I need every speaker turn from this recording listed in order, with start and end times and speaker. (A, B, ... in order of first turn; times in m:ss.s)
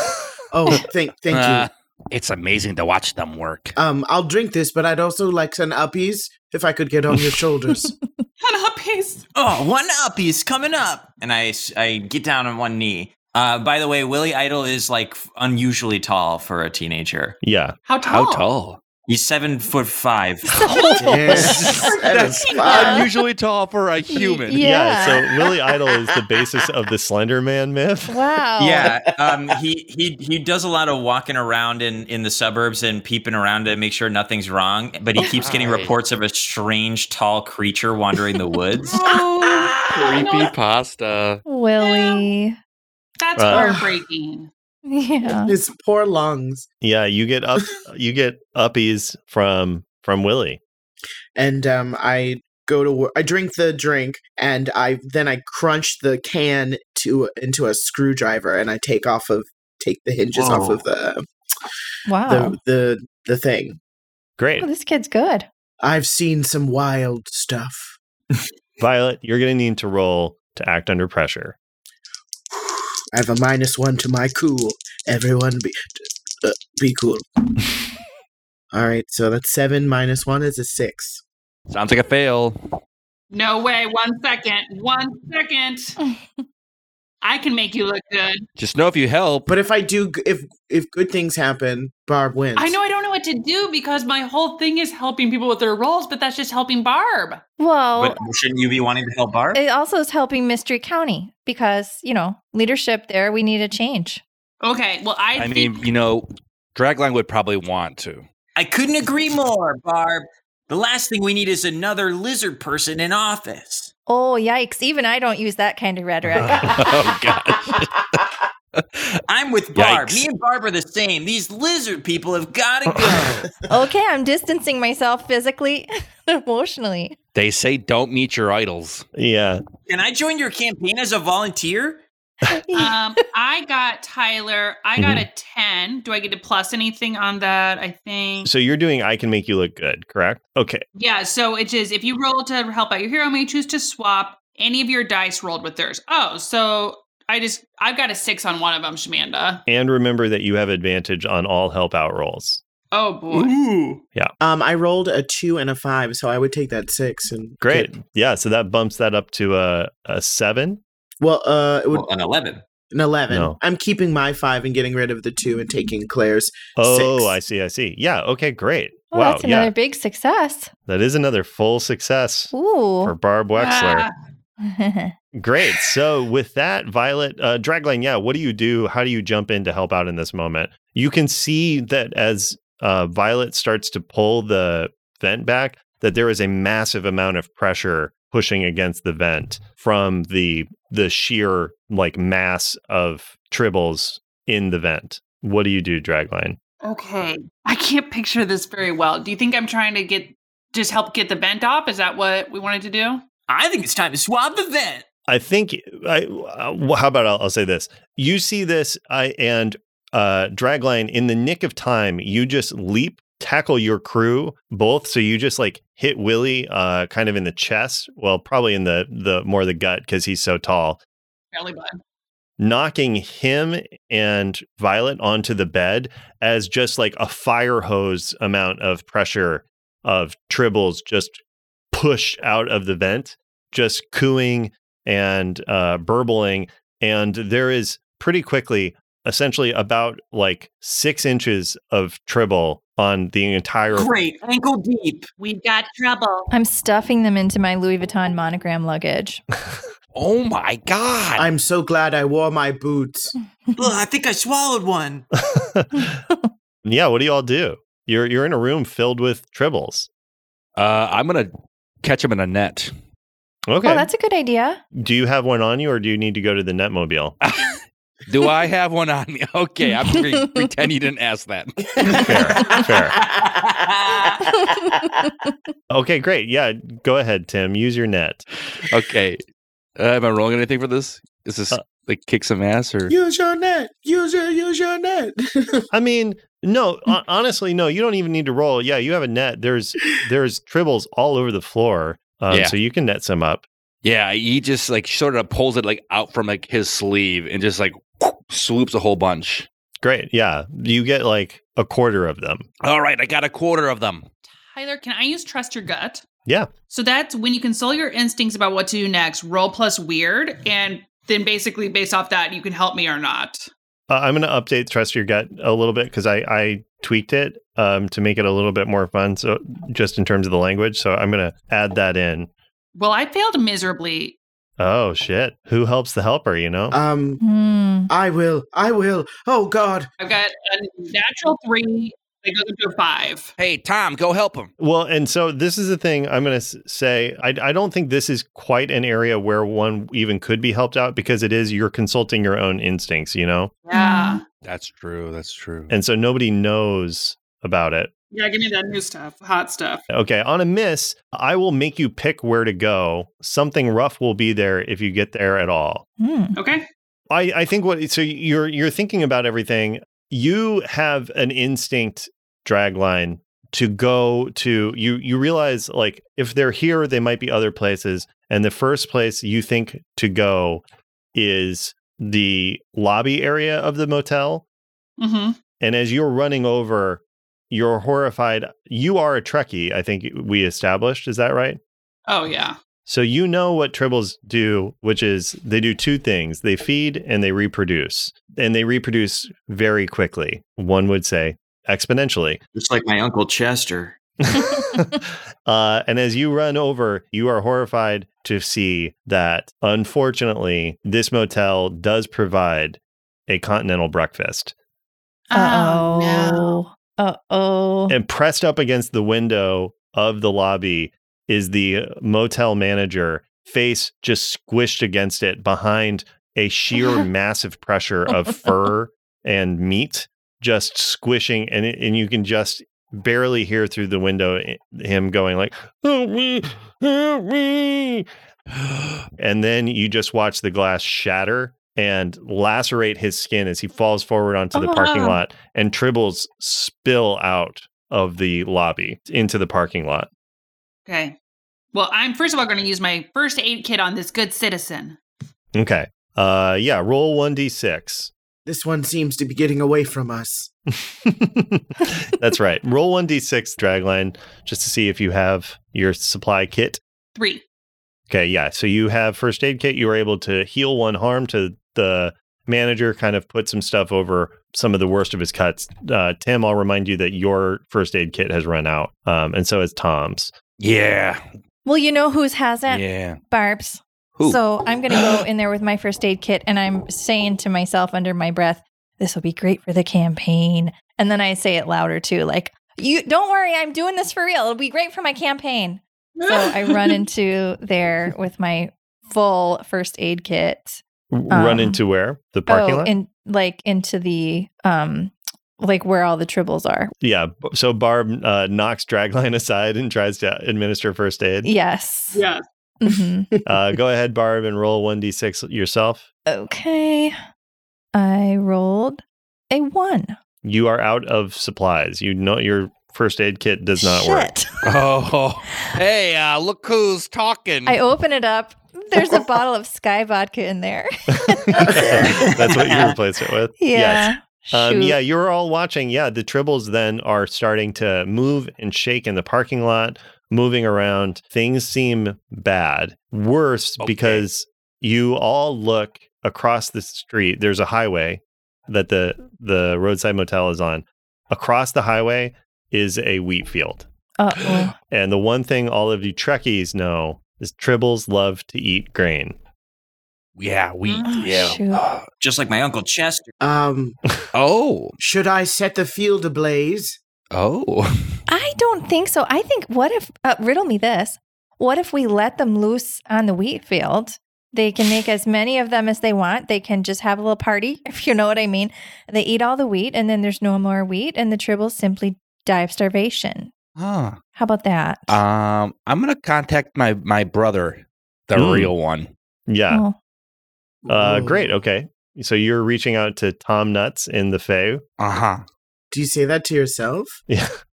0:00.5-0:01.7 A
0:01.3-0:03.7 B
0:03.8-0:08.0 A
0:08.4-0:09.2 C
0:09.4-0:17.4 D
0:17.4-0:17.8 E
0:17.9-0:18.4 C
0:18.1-0:18.8 B
0:19.1-0:21.9 D
0:20.6-0:21.7 F
0:21.0-0:23.1 A
0:21.8-0:24.6 B
0:22.6-0:22.9 C
0:24.1-0:25.2 F
0:24.6-0:28.1 E
0:28.1-0:28.9 F
0:28.6-0:39.1 D
0:35.2-0:35.9 B
0:39.0-0:41.4 B
0:40.0-0:40.5 C
0:41.4-0:42.6 F
0:41.8-0:42.3 C
0:43.2-0:44.5 C
0:43.4-0:43.7 E
0:43.5-0:43.9 A
0:44.9-0:45.5 F
0:45.2-0:46.7 A
0:46.8-0:50.6 E
0:51.4-1:01.2 A
1:00.4-1:00.8 D
1:02.1-1:02.6 F
1:02.2-1:03.8 A
1:04.4-1:04.7 E
1:04.6-1:05.5 F
1:05.8-1:07.9 A
1:08.8-1:11.6 E
1:12.6-1:15.8 A
1:16.4-1:17.2 A
1:18.7-1:21.2 A
1:21.7-1:22.6 B
1:23.3-1:26.0 C
1:26.0-1:26.4 F
1:27.2-1:28.5 C
1:28.6-1:29.5 B
1:29.5-1:32.8 A
1:32.6-1:37.4 C
1:37.6-1:38.2 F
1:37.9-1:39.6 D
1:39.5-1:44.2 F
1:44.6-1:45.9 C
1:45.4-1:48.2 B
1:48.6-1:53.9 D
1:54.1-1:56.5 F
1:56.4-1:58.2 B
1:58.7-1:59.2 B
1:59.3-2:03.5 D
1:59.7-2:00.2 B
2:03.7-2:07.2 F
2:07.4-2:09.1 B
2:09.2-2:09.6 E
2:09.9-2:12.0 D
2:12.5-2:13.0 F
2:12.7-2:18.5 C
2:15.0-2:15.2 E
2:18.4-2:20.8 E
2:21.0-2:29.6 C
2:29.7-2:32.6 E
2:32.9-2:33.5 C
2:33.3-2:34.0 D
2:34.4-2:37.9 A
2:37.6-2:40.8 E
2:41.2-2:42.1 A
2:41.9-2:42.6 D
2:42.9-2:47.3 A
2:43.3-2:43.6 E
2:46.8-2:49.7 E
2:49.1-2:50.7 F
2:50.9-2:54.1 E
2:52.5-2:53.1 F
2:53.6-2:54.1 C
2:54.6-2:55.1 F
2:55.4-3:16.6 E
3:16.8-3:23.2 C
3:23.5-3:25.0 D
3:25.3-3:41.0 E
3:41.5-3:42.0 C
3:42.6-3:51.4 E
3:51.9-4:04.1 E
4:03.9-4:05.3 D
4:05.4-4:06.5 C
4:06.5-4:09.4 F
4:10.1-4:11.5 B
4:11.4-4:13.3 A
4:13.8-4:15.2 D
4:15.5-4:16.2 E
4:15.9-4:16.5 F
4:16.8-4:20.1 E
4:20.8-4:21.5 B
4:22.0-4:22.9 B
4:23.7-4:24.1 E
4:23.8-4:24.8 F
4:24.9-4:27.4 E
4:27.4-4:32.4 B
4:30.1-4:30.6 F
4:32.0-4:33.2 A
4:32.2-4:33.1 E
4:33.2-4:34.4 D
4:34.5-4:35.1 F
4:35.9-4:38.4 E
4:38.8-4:39.4 B
4:40.0-4:43.1 B
4:43.1-4:45.8 A
4:45.9-4:53.6 E
4:54.0-4:59.7 B
5:00.0-5:02.6 E
5:02.8-5:04.2 B
5:04.5-5:06.2 C
5:06.9-5:13.7 C
5:14.1-5:22.5 E
5:23.0-5:24.4 C
5:24.8-5:27.0 E
5:26.9-5:27.4 A
5:27.4-5:28.1 F
5:28.1-5:30.1 A
5:30.2-5:33.5 C
5:33.6-5:34.7 B
5:34.8-5:43.7 E
5:43.8-5:44.4 C
5:43.9-5:44.4 F
5:44.6-5:45.9 B
5:45.9-5:48.1 E
5:48.3-5:50.0 C
5:50.1-5:56.0 E
5:56.2-5:56.6 F
5:56.6-5:56.8 C
5:57.3-6:10.8 E
6:11.4-6:14.6 E
6:15.2-6:15.6 C
6:15.8-6:21.8 E
6:22.3-6:22.8 C
6:23.1-6:32.6 E
6:32.7-6:34.2 D
6:34.5-6:44.7 E
6:34.6-6:35.0 F
6:45.5-6:46.7 C
6:45.5-6:48.2 F
6:48.1-7:08.3 E
7:08.8-7:09.1 B
7:09.4-7:20.3 E
7:14.7-7:15.1 F
7:15.0-7:15.4 C
7:21.1-7:21.4 C
7:21.9-7:25.2 C
7:25.7-7:28.3 E
7:28.6-7:30.7 A
7:31.2-7:37.0 E
7:37.4-7:37.6 C
7:38.3-7:50.5 E
7:50.8-7:51.4 B
7:51.8-8:12.0 F
7:52.9-7:53.4 B
7:54.4-7:55.3 B
8:06.4-8:07.2 C
8:11.3-8:13.1 E
8:12.7-8:17.1 F
8:17.2-8:21.7 E
8:21.6-8:22.4 F
8:22.3-8:22.6 C
8:23.0-8:23.5 F
8:23.6-8:26.2 E
8:26.5-8:27.4 F
8:28.1-8:30.4 F
8:30.6-8:34.5 E
8:34.0-8:34.6 F
8:34.8-8:38.0 B
8:37.9-8:41.8 F
8:41.5-9:04.1 E
8:41.9-8:43.1 D
8:42.0-8:42.3 A
8:43.8-8:45.2 F
8:54.0-8:54.4 B
9:04.4-9:04.9 F
9:05.1-9:09.6 E
9:10.6-9:12.2 B
9:11.1-9:11.4 C
9:11.3-9:12.1 F
9:12.4-9:13.5 D
9:13.6-9:14.2 A
9:14.5-9:15.1 B
9:15.2-9:17.2 A
9:17.5-9:18.3 B
9:18.5-9:33.7 F
9:34.0-9:34.4 B
9:34.5-9:35.4 F
9:35.3-9:39.3 B
9:38.6-9:38.9 E
9:39.7-9:40.0 E
9:39.9-9:40.2 F
9:41.0-9:41.7 A
9:41.1-9:45.0 E
9:45.2-9:45.6 B
9:46.1-9:47.3 A
9:47.5-9:47.7 E